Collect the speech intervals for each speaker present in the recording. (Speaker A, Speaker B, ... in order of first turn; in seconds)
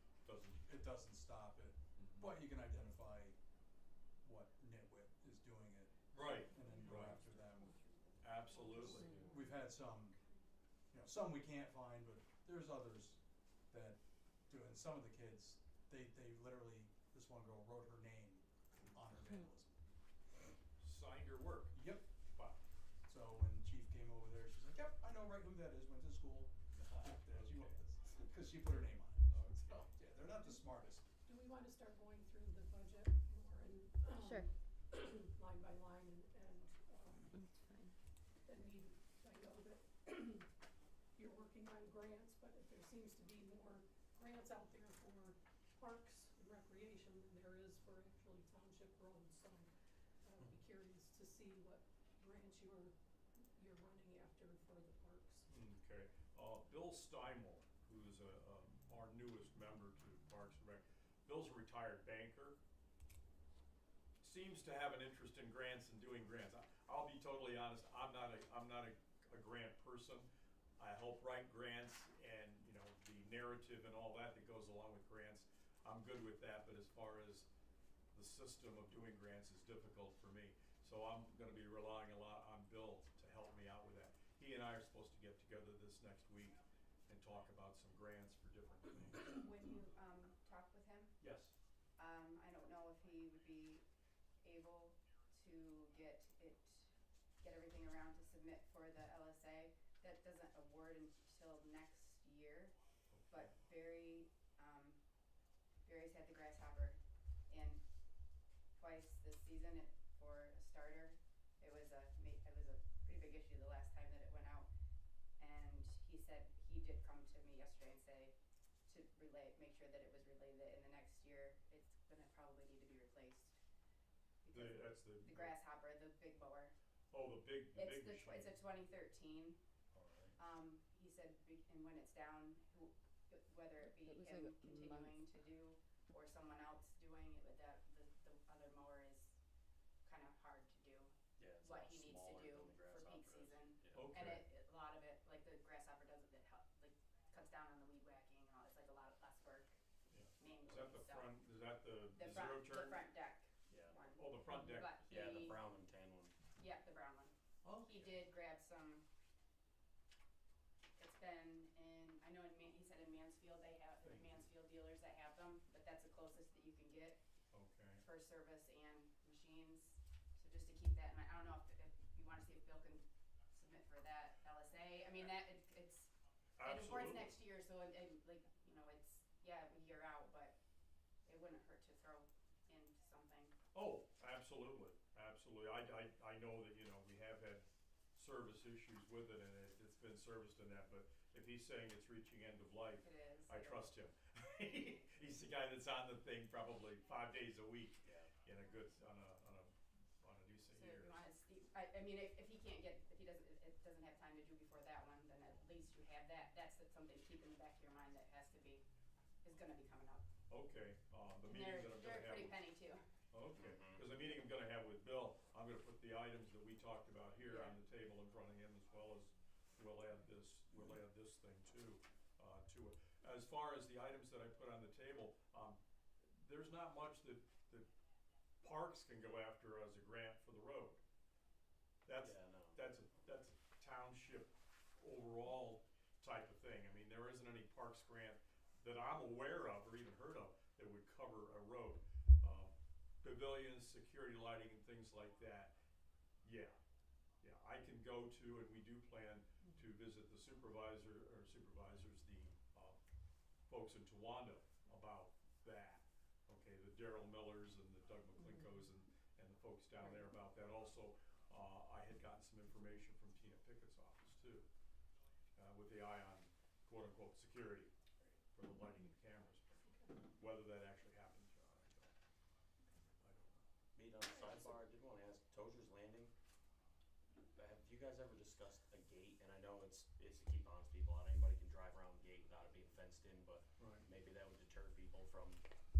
Speaker A: 0.2-0.6, 2.0-2.3, 6.1-7.2, 8.2-9.3, 20.8-22.6, 26.8-27.8, 29.3-29.9, 55.5-62.6, 64.2-70.3, 70.8-77.5, 78.1-89.4, 91.2-91.5, 103.1-103.5, 124.5-125.5, 127.1-128.6, 129.9-130.4, 143.9-144.4, 150.1-153.1, 154.1-155.1, 164.0-164.4, 167.5-168.0, 176.6-177.3, 183.7-201.2, 210.5-212.6, 213.3-225.8, 226.3-227.9, 228.6-231.0, 232.1-245.7, 246.4-246.8, 247.4-253.0, 253.7-264.7, 265.6-267.9, 268.5-272.1, 273.2-273.6, 283.8-284.1
Speaker B: 0.6-3.4, 4.2-7.8, 8.7-10.2, 10.9-19.8, 21.7-22.1, 23.1-31.1
Speaker C: 6.7-8.2, 9.0-9.3, 37.4-37.8, 134.1-135.2
Speaker D: 8.5-9.4, 31.2-37.4, 38.4-40.5, 41.2-49.7, 50.2-52.9, 53.5-55.5, 269.8-270.1
Speaker E: 34.2-34.5, 89.3-91.2, 92.0-93.8, 94.4-102.8, 103.3-105.0, 105.8-107.8, 108.8-114.7, 115.4-118.3, 118.9-123.6, 124.4-126.7, 127.7-129.6, 130.4-139.4, 140.1-149.8, 150.4-151.4, 152.1-155.7, 156.6-159.1, 161.0-167.2, 168.0-180.6, 181.3-183.6, 193.0-193.9, 200.7-208.8, 209.4-210.3, 211.4-213.0, 217.4-217.8
Speaker F: 141.4-144.0, 153.7-154.0, 155.1-156.4, 198.0-198.3, 213.6-214.0, 232.2-232.8, 273.9-276.3, 277.6-285.6